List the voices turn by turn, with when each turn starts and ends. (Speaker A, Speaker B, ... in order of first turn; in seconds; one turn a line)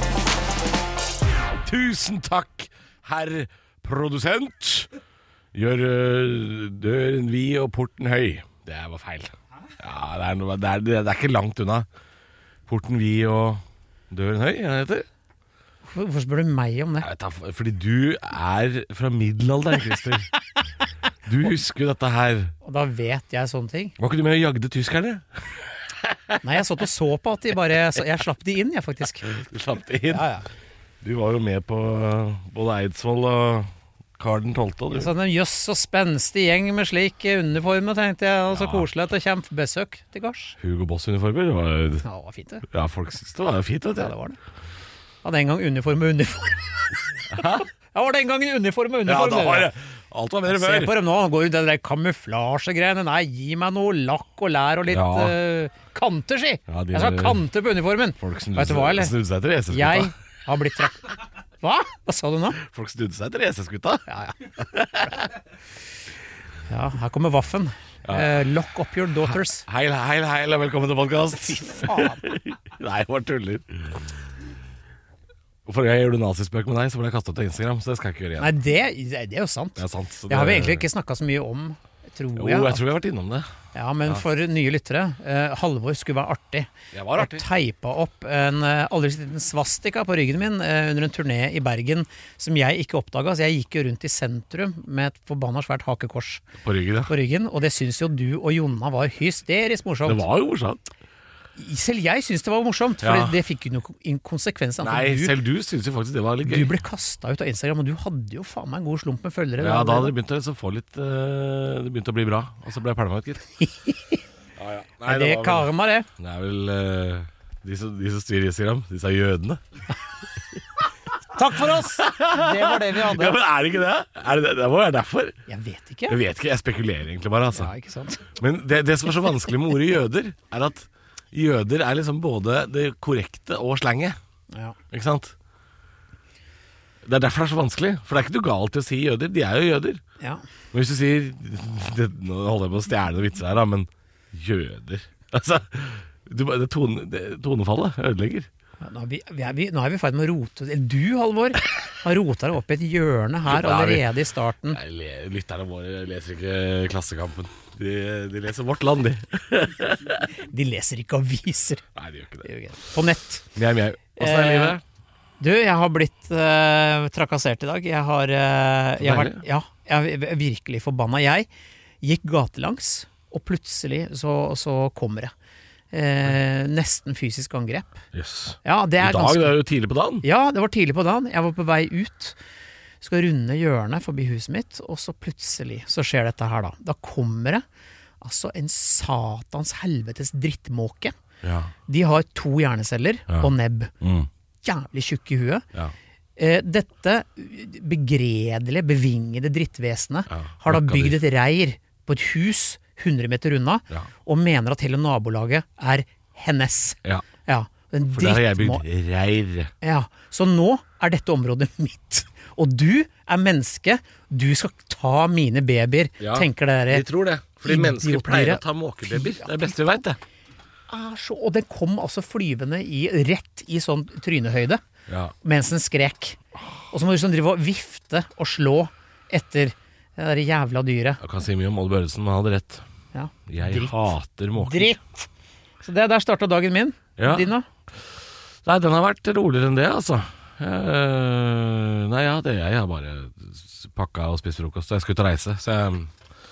Speaker A: 1.6-4.9
Speaker A: 5.5-11.9
Speaker A: 12.7-15.1
Speaker B: 15.9-17.1
Speaker A: 17.0-20.3
Speaker A: 21.3-22.5
Speaker B: 22.6-23.9
Speaker A: 24.0-26.4
Speaker B: 26.4-29.3
Speaker A: 29.2-30.2
Speaker B: 30.1-30.5
Speaker A: 31.0-35.1
Speaker B: 34.9-40.6
Speaker A: 38.5-38.9
Speaker A: 40.6-42.0
Speaker B: 42.0-42.7
Speaker A: 42.7-44.1
Speaker B: 44.0-44.4
Speaker B: 45.2-49.7
Speaker A: 47.3-47.7
Speaker A: 49.1-51.0
Speaker B: 50.5-59.1
Speaker A: 54.9-55.4
Speaker A: 56.7-57.5
Speaker A: 58.2-60.1
Speaker B: 59.7-62.6
Speaker A: 62.6-64.0
Speaker B: 64.1-64.4
Speaker A: 64.6-65.3
Speaker B: 66.7-69.7
Speaker A: 68.0-68.4
Speaker A: 69.2-74.2
Speaker B: 71.4-72.3
Speaker A: 75.7-78.5
Speaker B: 78.4-82.8
Speaker A: 79.8-80.9
Speaker A: 82.4-83.5
Speaker B: 83.7-96.4
Speaker A: 86.9-87.5
Speaker A: 96.6-97.1
Speaker B: 97.1-100.2
Speaker A: 100.1-100.9
Speaker B: 101.6-105.4
Speaker A: 103.0-103.4
Speaker A: 104.8-106.7
Speaker B: 106.5-110.1
Speaker A: 109.6-113.5
Speaker B: 113.6-114.2
Speaker A: 114.6-119.6
Speaker B: 115.0-116.1
Speaker B: 121.3-123.4
Speaker A: 121.6-125.4
Speaker B: 125.5-126.2
Speaker A: 126.1-127.7
Speaker B: 127.5-128.3
Speaker A: 128.3-134.2
Speaker B: 134.5-134.8
Speaker A: 134.9-135.3
Speaker A: 137.0-140.0
Speaker A: 140.7-148.5
Speaker B: 148.8-154.8
Speaker A: 153.5-154.1
Speaker A: 154.7-160.3
Speaker B: 160.4-161.8
Speaker A: 161.9-162.5
Speaker B: 162.4-163.5
Speaker A: 163.6-164.8
Speaker B: 164.2-164.8
Speaker B: 165.4-171.5
Speaker A: 169.0-169.4
Speaker B: 172.0-175.3
Speaker B: 175.9-178.0
Speaker A: 178.1-180.3
Speaker B: 178.6-179.6
Speaker B: 180.2-182.4
Speaker B: 183.0-187.6
Speaker B: 188.2-191.1
Speaker A: 191.4-191.7
Speaker B: 191.9-193.9
Speaker A: 193.3-194.3
Speaker B: 194.6-195.7
Speaker B: 196.4-208.8
Speaker A: 200.3-201.2
Speaker A: 208.1-209.7
Speaker B: 209.8-217.1
Speaker A: 216.2-220.2
Speaker B: 217.6-219.8
Speaker B: 220.9-224.8
Speaker A: 225.1-225.3
Speaker B: 225.4-226.4
Speaker B: 226.9-231.2
Speaker A: 231.2-232.8
Speaker B: 233.1-235.0
Speaker A: 233.5-235.0
Speaker B: 235.8-237.7
Speaker A: 237.2-237.5
Speaker A: 238.6-246.1